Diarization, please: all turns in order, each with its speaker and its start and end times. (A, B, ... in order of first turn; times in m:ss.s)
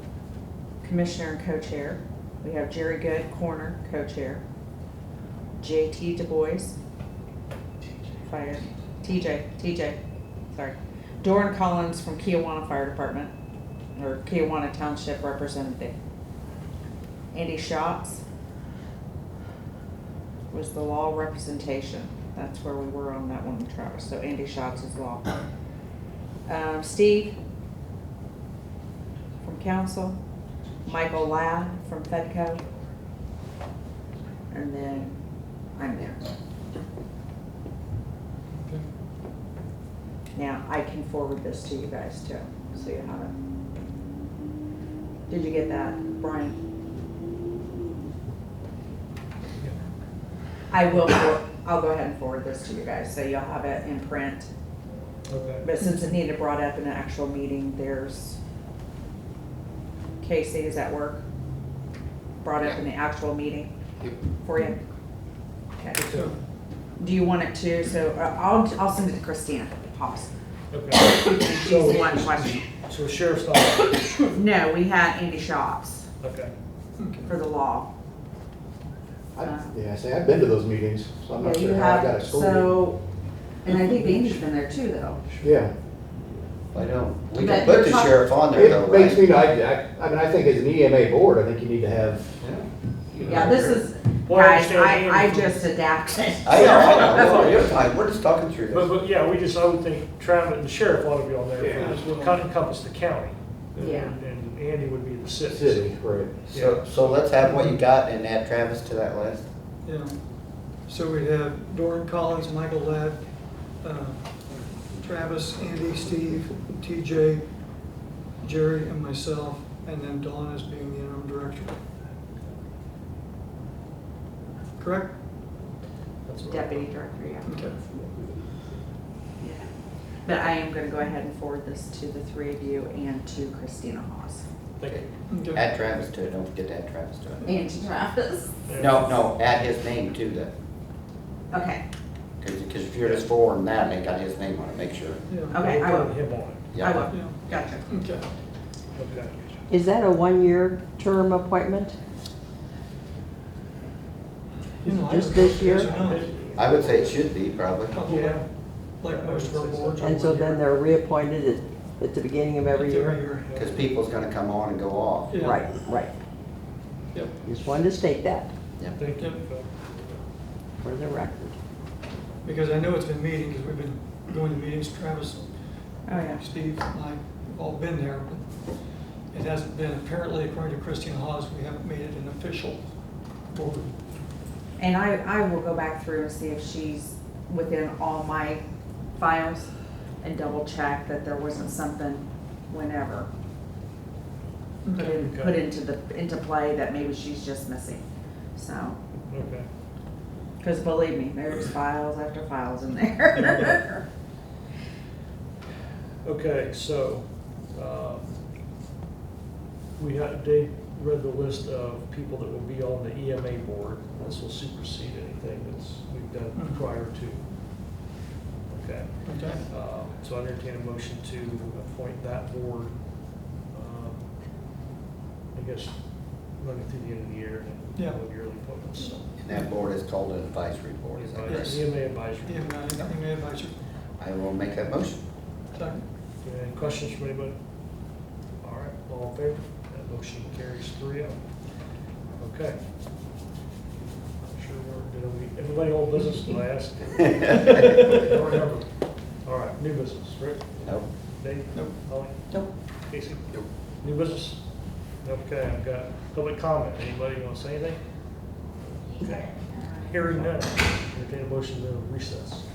0:00.8-0:04.4 A
0:05.6-0:06.8 A
0:08.2-0:10.0 A
0:10.5-0:13.3 A
0:13.9-0:15.9 A
0:17.3-0:18.2 A
0:20.5-0:25.3 A
0:26.4-0:27.4 A
0:29.4-0:30.2 A
0:30.8-0:32.6 A
0:34.5-0:35.2 A
0:35.7-0:36.3 A
0:38.5-0:38.9 B
0:40.3-0:43.3 A
0:45.3-0:46.6 A
0:50.7-0:54.5 A
0:55.3-0:55.6 C
0:55.6-0:58.4 A
1:00.2-1:01.2 A
1:02.4-1:03.7 A
1:04.4-1:04.8 A
1:05.8-1:06.0 A
1:05.9-1:06.3 C
1:06.1-1:06.4 B
1:07.0-1:10.3 A
1:10.7-1:14.1 C
1:11.0-1:12.6 A
1:14.2-1:16.1 A
1:16.2-1:16.5 C
1:17.0-1:17.3 B
1:17.2-1:17.9 A
1:19.3-1:22.8 D
1:19.4-1:19.7 A
1:21.4-1:23.0 A
1:23.6-1:25.2 A
1:25.2-1:25.5 C
1:25.4-1:25.7 D
1:26.7-1:29.3 E
1:27.3-1:28.3 A
1:28.5-1:32.4 D
1:32.4-1:32.6 E
1:33.2-1:35.6 C
1:33.2-1:33.7 D
1:33.2-1:37.6 A
1:36.4-1:38.9 E
1:36.5-1:37.8 C
1:38.7-1:47.2 C
1:41.6-1:41.9 D
1:41.6-1:42.5 B
1:43.8-1:44.2 A
1:45.5-1:46.5 D
1:46.5-1:49.5 E
1:47.4-1:47.8 B
1:49.8-1:50.2 B
1:50.8-1:57.4 B
1:58.4-2:01.8 B
2:04.8-2:05.1 B
2:06.2-2:06.9 C
2:06.5-2:08.0 A
2:07.4-2:07.8 B
2:09.4-2:09.6 A
2:10.2-2:14.4 A
2:14.8-2:15.0 C
2:14.9-2:17.5 E
2:15.3-2:15.7 B
2:17.4-2:18.5 A
2:18.7-2:19.2 C
2:18.8-2:20.5 E
2:21.5-2:21.8 A
2:22.4-2:25.2 E
2:25.3-2:25.6 B
2:25.5-2:27.8 A
2:25.5-2:26.8 C
2:26.7-2:27.1 E
2:27.1-2:28.3 B
2:28.9-2:29.3 C
2:29.7-2:32.0 F
2:34.8-2:36.3 B
2:34.8-2:35.9 F
2:35.7-2:37.3 C
2:36.5-2:37.9 E
2:37.9-2:40.6 B
2:38.0-2:40.6 C
2:40.0-2:43.2 F
2:42.7-2:43.7 B
2:43.4-2:43.9 C
2:43.5-2:45.4 E
2:45.3-2:45.7 B
2:45.4-2:46.1 F
2:47.1-2:47.4 B
2:47.4-2:48.5 F
2:48.8-2:49.0 E
2:48.9-2:49.9 C
2:49.1-2:49.5 B
2:50.8-2:51.5 F
2:52.4-3:03.9 B
2:56.0-2:56.4 A
3:04.8-3:08.6 A
3:09.2-3:09.7 A
3:10.2-3:13.3 A
3:14.8-3:15.1 B
3:14.9-3:18.0 A
3:15.0-3:15.6 C
3:18.5-3:19.0 A
3:19.3-3:19.7 C
3:20.6-3:24.0 A
3:23.4-3:23.8 B
3:26.2-3:28.4 C
3:30.0-3:37.6 C
3:36.5-3:36.8 B
3:38.7-3:44.3 C
3:39.2-3:39.6 B
3:45.5-3:49.3 C
3:48.0-3:48.2 B
3:49.4-3:51.8 E
3:51.1-3:52.8 C
3:51.4-3:51.8 B
3:52.4-3:53.7 B
3:54.2-3:55.2 E
3:55.7-3:56.0 B
3:56.4-3:57.6 C
3:58.6-4:01.6 C
4:02.4-4:02.8 C
4:04.4-4:12.5 C
4:07.5-4:08.2 E
4:10.8-4:11.1 E
4:11.7-4:12.1 B
4:13.0-4:14.6 C
4:15.1-4:18.0 C
4:19.1-4:22.6 C